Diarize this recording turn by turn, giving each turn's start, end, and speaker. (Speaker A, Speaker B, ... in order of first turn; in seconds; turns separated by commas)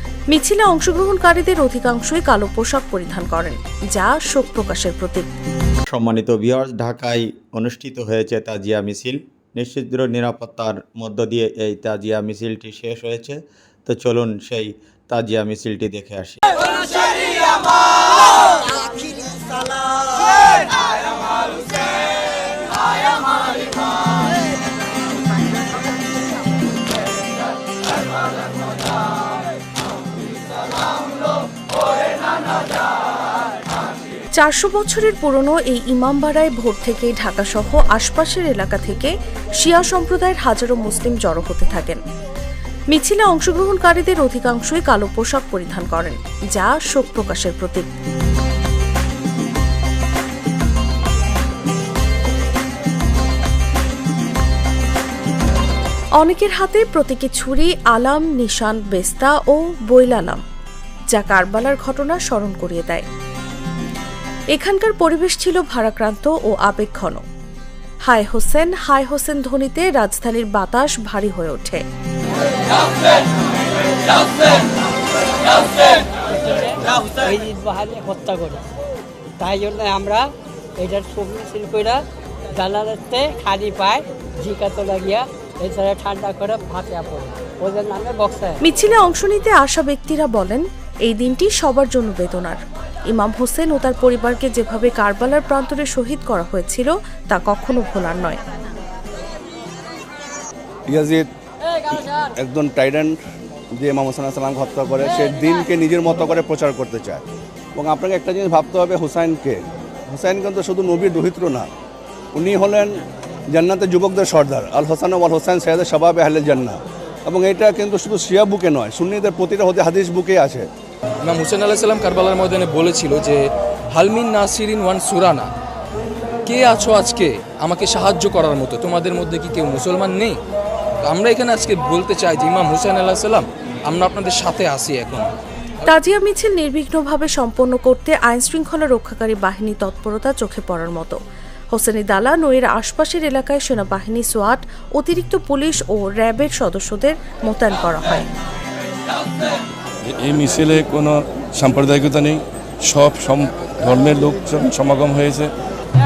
Speaker A: 0.3-5.3, Speaker B: 5.9-16.4, Speaker A: 34.4-42.0, Speaker A: 42.9-47.9, Speaker A: 56.2-60.4, Speaker A: 61.1-63.0, Speaker A: 64.5-67.2, Speaker A: 68.0-71.8, Speaker C: 75.7-78.6, Speaker C: 79.4-82.0, Speaker C: 82.5-88.6, Speaker A: 88.6-98.4, Speaker D: 100.9-101.3, Speaker D: 101.9-103.2, Speaker D: 103.7-107.2, Speaker D: 107.8-111.7, Speaker D: 112.3-113.0, Speaker D: 113.5-120.7, Speaker E: 121.2-125.5, Speaker E: 126.5-130.4, Speaker E: 131.0-135.3, Speaker A: 135.8-141.2, Speaker A: 141.7-148.3, Speaker F: 150.2-155.5